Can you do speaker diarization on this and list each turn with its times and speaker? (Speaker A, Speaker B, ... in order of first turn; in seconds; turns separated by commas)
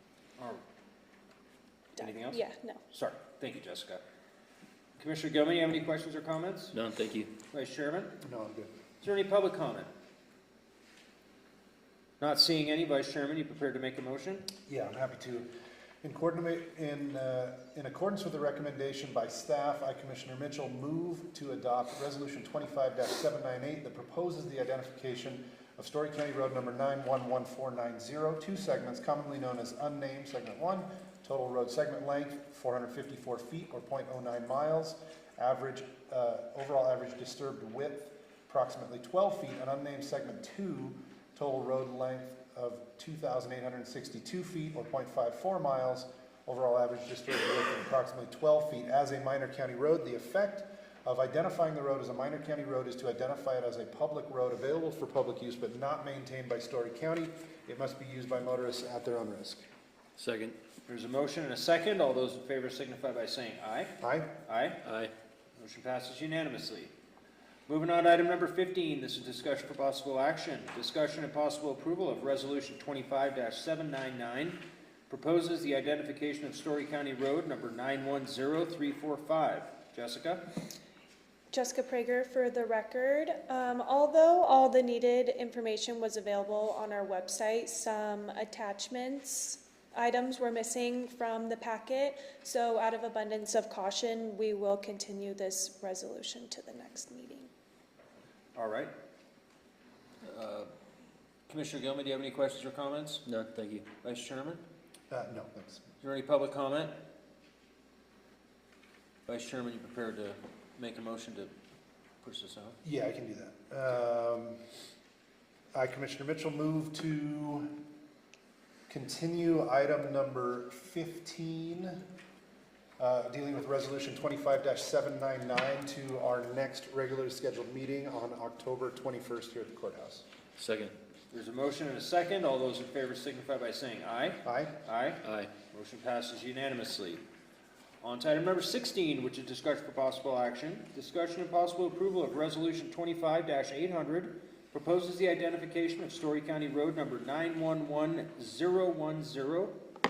Speaker A: 2.0-2.8, Speaker B: 2.0-2.4, Speaker B: 2.9-4.0, Speaker B: 5.0-6.8, Speaker C: 6.7-7.3, Speaker B: 7.5-8.1, Speaker D: 8.2-8.7, Speaker B: 9.0-9.9, Speaker B: 12.2-14.5, Speaker D: 14.7-15.5, Speaker D: 16.0-59.6, Speaker C: 60.2-60.6, Speaker B: 60.9-63.9, Speaker D: 64.0-64.3, Speaker B: 64.5-64.8, Speaker C: 64.8-65.1, Speaker B: 65.6-66.9, Speaker B: 67.7-80.4, Speaker A: 81.5-97.5, Speaker B: 98.5-98.9, Speaker B: 100.2-100.7, Speaker B: 101.5-103.2, Speaker C: 103.2-103.9, Speaker B: 104.0-104.6, Speaker D: 105.1-105.9, Speaker B: 106.0-106.9, Speaker B: 109.3-111.5, Speaker B: 112.2-112.8, Speaker D: 112.8-114.6, Speaker D: 115.7-117.7, Speaker D: 118.9-122.0, Speaker D: 123.0-130.2, Speaker C: 130.6-130.9, Speaker B: 131.3-137.2, Speaker D: 134.4-134.7, Speaker C: 135.2-135.5, Speaker B: 138.0-149.8